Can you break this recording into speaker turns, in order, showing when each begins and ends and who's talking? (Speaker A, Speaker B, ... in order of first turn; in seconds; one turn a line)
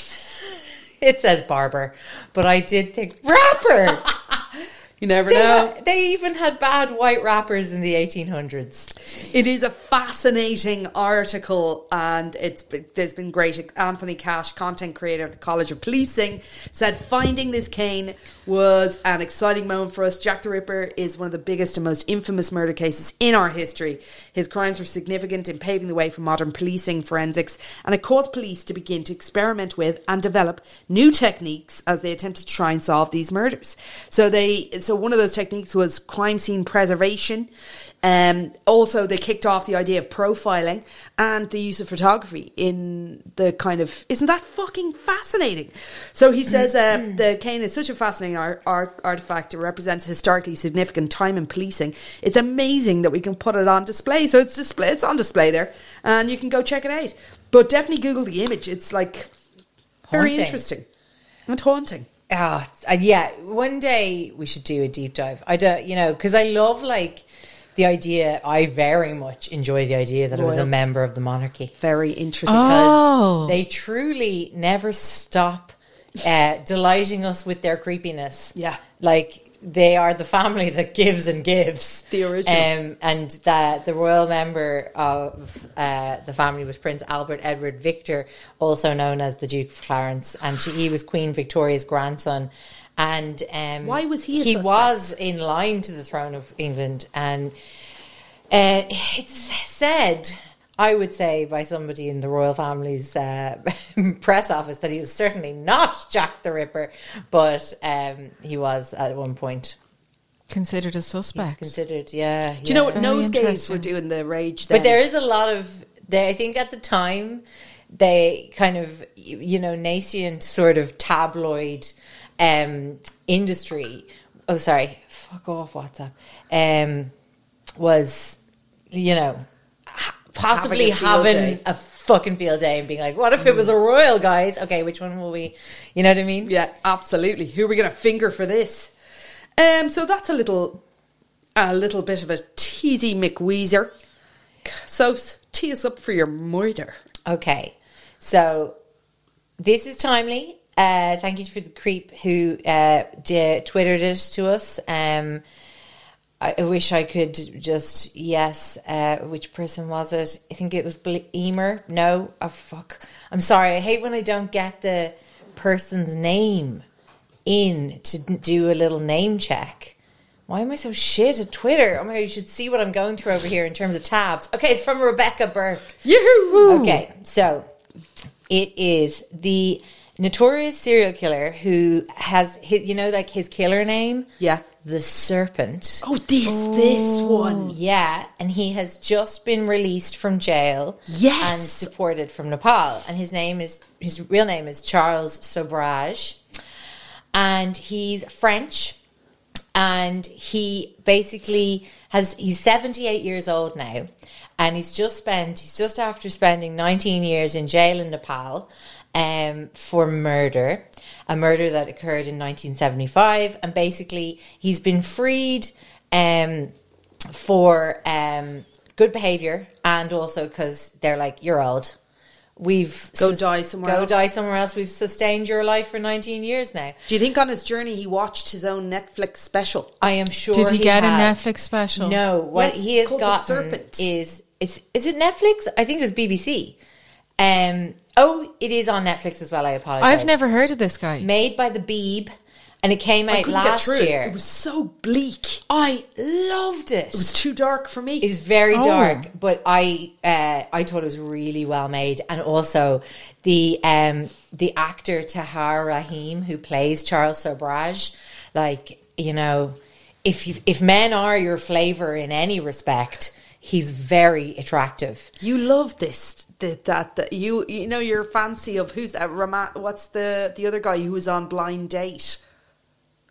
Speaker A: 1.0-4.1
Speaker B: 5.0-5.8
Speaker A: 5.3-8.9
Speaker B: 9.3-37.5
Speaker B: 38.0-59.3
Speaker A: 60.1-60.6
Speaker B: 60.1-60.9
Speaker B: 61.5-62.1
Speaker A: 62.3-71.7
Speaker B: 70.3-70.7
Speaker B: 71.8-73.0
Speaker C: 72.5-73.6
Speaker A: 72.5-97.5
Speaker B: 78.5-78.8
Speaker B: 82.1-82.7
Speaker B: 93.8-95.1
Speaker A: 98.5-109.8
Speaker C: 110.5-111.8
Speaker A: 111.3-113.0
Speaker B: 112.6-115.0
Speaker C: 112.9-113.9
Speaker A: 114.7-127.1
Speaker A: 127.8-128.4
Speaker A: 128.9-136.5
Speaker B: 130.5-131.6
Speaker B: 136.4-138.9
Speaker B: 139.6-140.8
Speaker B: 141.6-143.9
Speaker B: 144.6-147.0
Speaker A: 147.2-148.8
Speaker A: 149.6-155.4
Speaker A: 156.4-166.8
Speaker A: 167.4-169.9
Speaker A: 170.5-176.0
Speaker B: 176.0-177.0
Speaker A: 176.6-177.7
Speaker A: 178.5-184.3
Speaker B: 184.4-184.6
Speaker A: 184.8-186.0
Speaker B: 186.0-187.8
Speaker C: 186.4-187.7
Speaker A: 187.7-196.4
Speaker B: 191.1-191.9
Speaker A: 197.3-199.0
Speaker A: 199.7-216.7
Speaker A: 217.3-221.9
Speaker A: 222.6-226.9
Speaker B: 223.2-224.2
Speaker B: 227.1-229.9
Speaker A: 230.0-236.8
Speaker C: 230.5-232.2
Speaker B: 232.5-234.1
Speaker A: 237.4-240.4
Speaker C: 240.0-241.3
Speaker A: 241.2-244.4
Speaker B: 243.3-245.6
Speaker A: 245.7-247.3
Speaker B: 247.1-248.3
Speaker A: 248.2-265.3
Speaker C: 248.7-249.3
Speaker B: 265.4-272.4